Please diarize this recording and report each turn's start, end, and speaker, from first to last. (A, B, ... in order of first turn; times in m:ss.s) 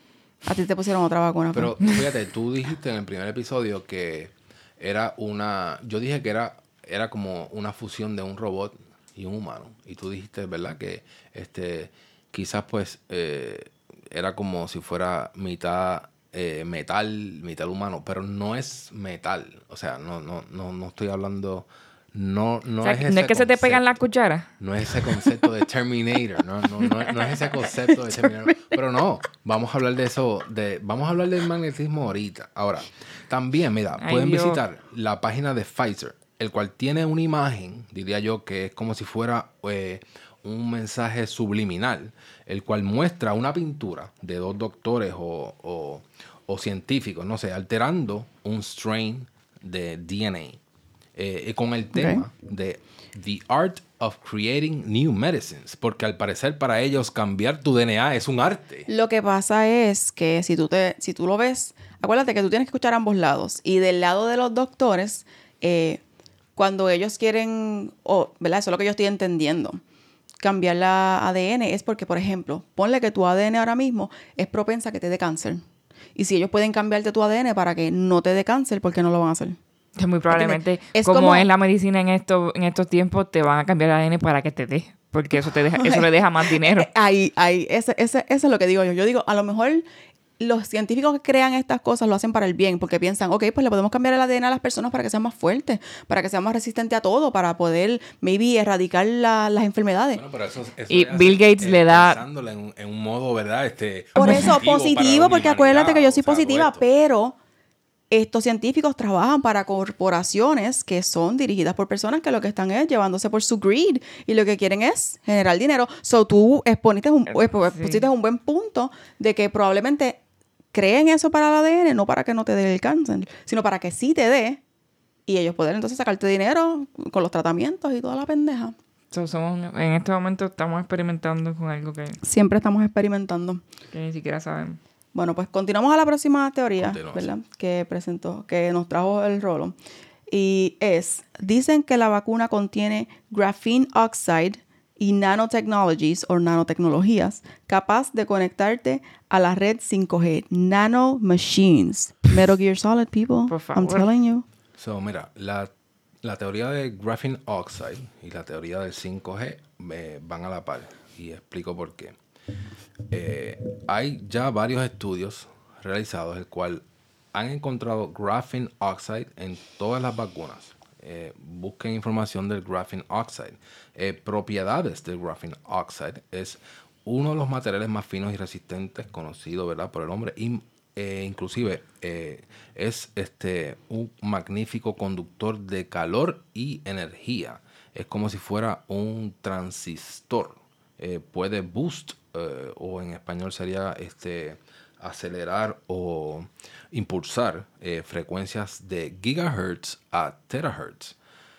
0:00.4-0:01.7 A
0:01.5-0:23.8 B
0:22.8-0:24.5 C
0:24.6-0:50.6 B
0:26.8-0:27.7 C
0:34.0-0:34.6 C
0:51.2-0:58.9 B
0:51.9-0:52.2 A
0:58.9-1:06.0 A
1:06.6-1:09.8 A
1:10.4-1:15.6 A
1:16.2-1:19.6 A
1:20.0-1:26.9 C
1:20.3-1:21.5 A
1:25.3-1:29.8 A
1:30.4-1:40.2 A
1:40.1-1:46.8 B
1:40.9-1:42.2 C
1:44.2-1:47.4 A
1:44.2-1:44.5 C
1:48.1-2:00.2 A
1:57.3-1:58.1 C
2:00.7-2:04.6 A
2:05.3-2:08.7 A
2:09.1-2:12.2 C
2:12.2-2:13.6 A
2:13.9-2:14.8 C
2:15.1-2:19.7 A
2:16.8-2:17.3 B
2:20.3-2:34.4 A
2:33.5-2:34.1 C
2:34.8-2:35.7 B
2:36.2-2:42.2 B
2:43.1-2:46.8 B
2:47.3-3:21.2 B